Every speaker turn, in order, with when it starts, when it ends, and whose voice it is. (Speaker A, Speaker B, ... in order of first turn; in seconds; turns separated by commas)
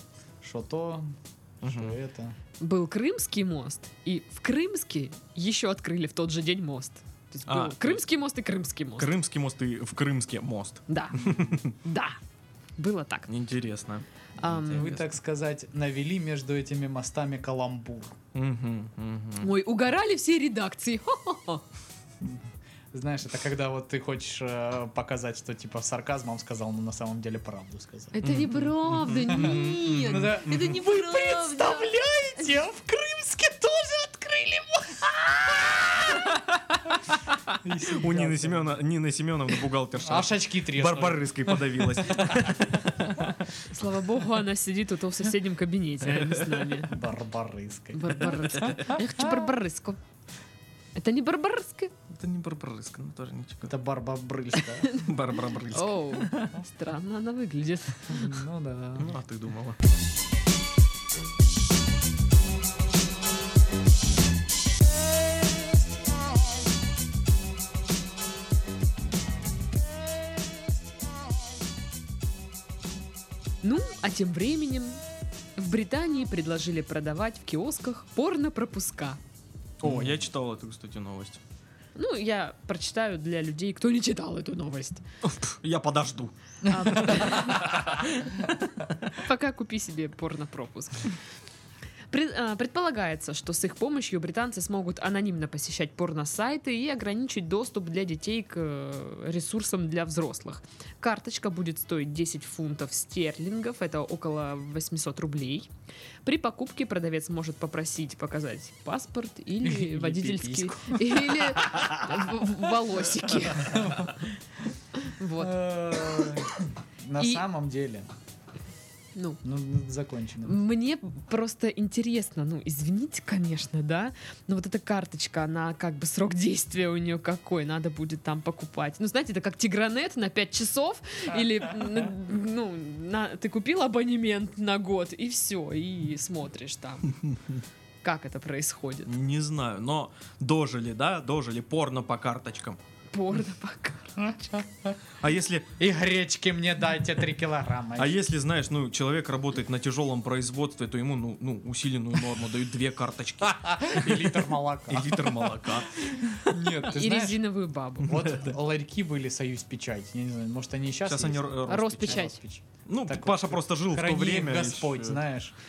Speaker A: 0.4-2.4, Speaker B: 1.6-2.0, Speaker C: 2.6-9.1, Speaker B: 7.5-8.0, Speaker B: 9.0-11.7, Speaker C: 10.9-12.2, Speaker C: 12.8-13.3, Speaker B: 13.3-14.0, Speaker C: 14.4-14.9, Speaker A: 14.4-18.1, Speaker B: 14.6-15.1, Speaker B: 18.3-19.5, Speaker C: 19.4-21.6, Speaker A: 22.2-28.2, Speaker C: 28.1-31.9, Speaker B: 28.2-30.8, Speaker A: 29.3-36.4, Speaker A: 37.6-38.8, Speaker B: 37.8-43.5, Speaker A: 40.0-42.6, Speaker C: 43.7-46.9, Speaker B: 46.1-46.7, Speaker A: 46.8-48.3, Speaker C: 47.9-50.0, Speaker B: 48.4-48.9, Speaker A: 48.9-49.4, Speaker C: 51.0-51.9, Speaker B: 52.1-53.7, Speaker A: 53.6-54.9, Speaker C: 54.6-55.1, Speaker B: 55.0-56.5, Speaker C: 55.7-58.4, Speaker A: 58.1-59.1, Speaker B: 59.0-59.8, Speaker C: 73.6-75.0, Speaker C: 75.6-79.2, Speaker B: 79.8-81.4, Speaker A: 79.8-80.2, Speaker C: 82.0-85.0, Speaker B: 85.2-88.3, Speaker C: 86.6-88.0, Speaker A: 86.7-87.6, Speaker C: 89.1-91.2, Speaker C: 92.1-105.7, Speaker C: 106.2-114.0, Speaker A: 109.6-111.2, Speaker A: 113.6-114.3, Speaker C: 115.0-115.6, Speaker A: 115.4-118.1, Speaker C: 117.2-117.4, Speaker C: 119.1-119.4, Speaker A: 119.4-120.6, Speaker C: 120.4-137.1, Speaker C: 138.0-139.1, Speaker B: 139.1-142.8, Speaker C: 143.1-144.4, Speaker A: 144.2-145.0, Speaker B: 145.2-145.7, Speaker A: 145.8-148.2, Speaker B: 148.0-156.8, Speaker A: 153.4-155.8, Speaker A: 156.4-157.4, Speaker C: 156.9-158.3, Speaker A: 158.0-165.5, Speaker B: 161.0-162.3, Speaker C: 161.7-162.4, Speaker B: 162.8-165.2